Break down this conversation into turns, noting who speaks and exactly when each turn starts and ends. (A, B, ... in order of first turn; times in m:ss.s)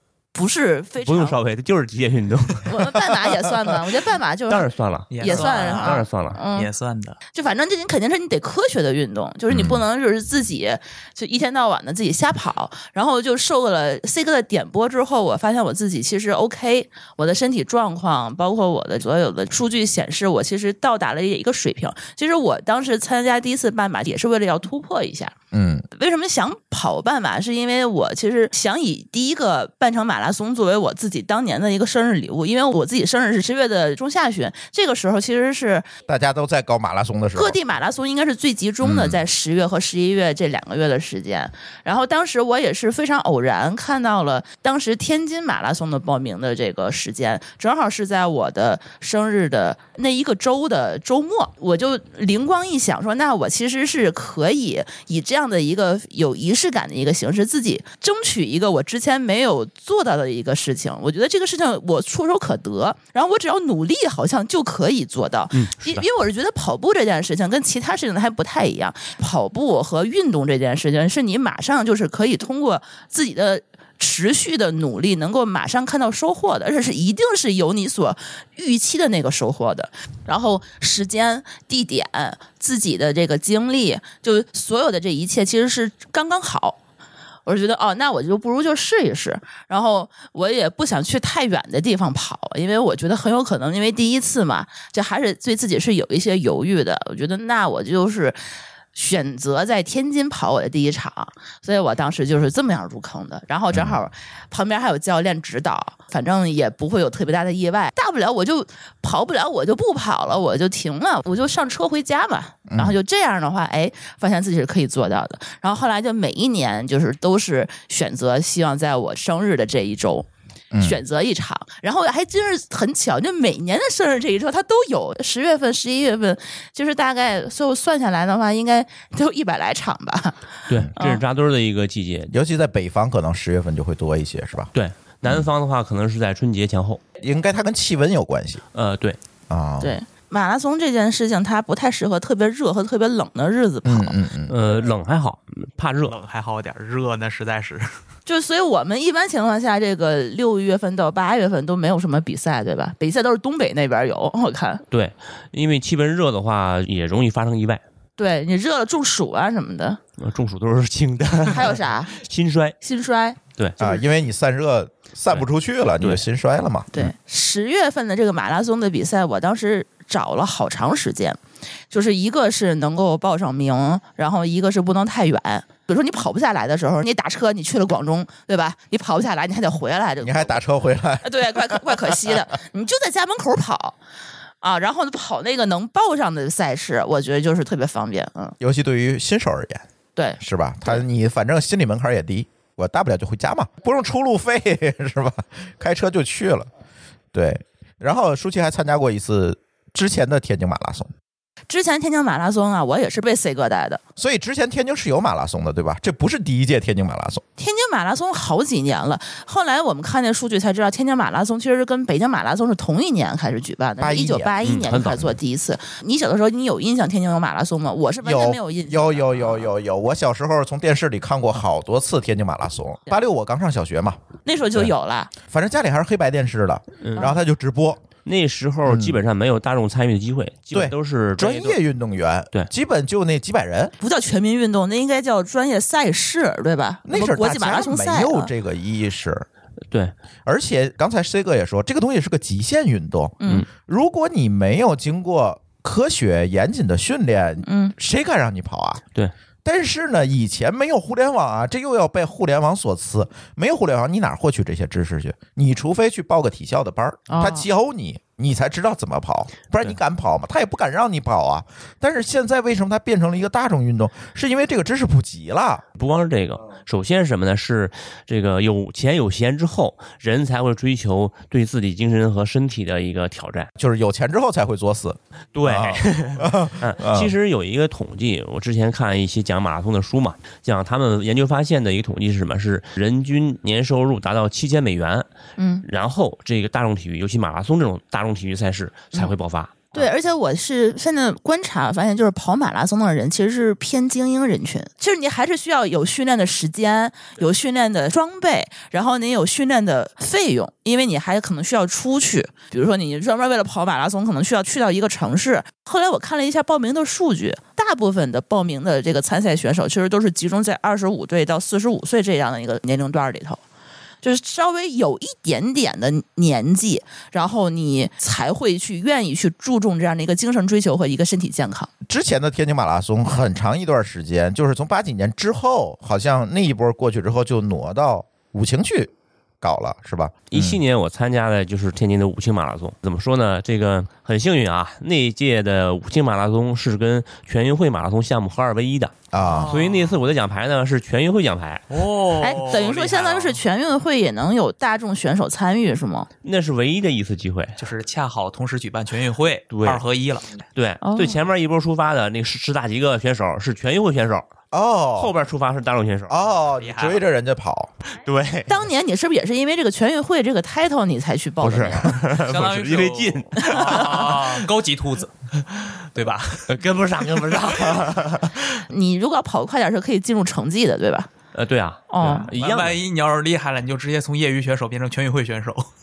0:00.3-0:01.4 A
0:01.0-0:02.8 B
0:02.7-0:04.7 A
0:04.5-0:06.4 B
0:05.1-0:07.2 C
0:05.2-0:06.7 A
0:07.3-0:25.3 A
0:09.5-0:09.8 D
0:25.5-0:25.8 D
0:26.0-0:35.9 A
0:36.1-0:37.6 D
0:37.4-1:26.8 A
0:38.8-0:39.2 D
1:05.5-1:06.1 B
1:27.5-1:38.4 A
1:38.9-2:00.3 A
1:43.7-1:44.0 D
1:52.7-1:53.0 D
2:00.7-2:01.0 D
2:00.8-2:10.4 A
2:10.7-2:12.3 B
2:11.0-2:11.2 A
2:12.3-2:14.7 D
2:14.8-2:17.0 B
2:17.2-2:18.6 D
2:18.7-2:19.2 B
2:19.5-2:20.0 D
2:19.8-2:24.2 A
2:23.8-2:24.6 D
2:24.5-2:26.2 B
2:26.0-2:28.0 C
2:28.3-2:34.8 A
2:34.9-2:37.8 B
2:38.2-2:40.0 A
2:40.2-2:42.8 B
2:41.5-2:42.2 A
2:42.8-2:44.0 A
2:43.8-2:47.1 D
2:46.9-2:51.4 A
2:51.9-3:00.6 A
3:00.2-3:02.4 D
3:01.2-3:04.0 A
3:04.6-3:08.6 A
3:08.6-3:09.8 D
3:10.2-3:11.0 A
3:10.4-3:16.7 D
3:17.3-3:21.1 D
3:21.7-3:24.0 A
3:24.2-3:27.4 D
3:27.6-3:39.7 A
3:34.0-3:34.5 D
3:34.6-3:35.3 B
3:38.2-3:44.2 D
3:44.4-3:45.3 A
3:45.5-3:48.0 D
3:47.0-3:47.3 B
3:48.2-3:51.8 B
3:48.8-3:49.2 D
3:50.7-3:53.9 D
3:54.0-3:58.5 A
3:57.1-3:59.5 D
4:00.5-4:09.0 D
4:03.4-4:03.7 A
4:07.7-4:07.9 A
4:09.6-4:25.8 D
4:17.3-4:17.7 A
4:26.0-4:33.7 B
4:33.8-4:37.3 D
4:35.6-4:45.3 B
4:45.6-4:45.8 A
4:45.8-4:50.1 B
4:49.9-5:13.6 A
5:14.2-5:21.9 A
5:22.0-5:30.8 D
5:30.5-5:41.9 B
5:39.3-5:39.7 D
5:39.4-5:40.2 C
5:41.9-5:43.6 C
5:42.4-5:46.3 A
5:46.4-5:47.8 B
5:47.8-5:50.6 C
5:49.7-5:50.0 B
5:50.8-5:54.5 B
5:51.0-5:51.4 A
5:54.7-5:55.3 D
5:55.2-5:56.4 B
5:56.3-5:57.9 D
5:56.8-5:57.3 C
5:58.2-5:58.7 B
5:58.7-6:02.2 A
6:01.6-6:04.6 B
6:02.3-6:05.3 C
6:03.6-6:04.0 A
6:06.1-6:06.7 C
6:06.7-6:08.8 B
6:08.9-6:11.3 A
6:11.5-6:13.0 B
6:12.1-6:12.5 A
6:12.2-6:15.9 C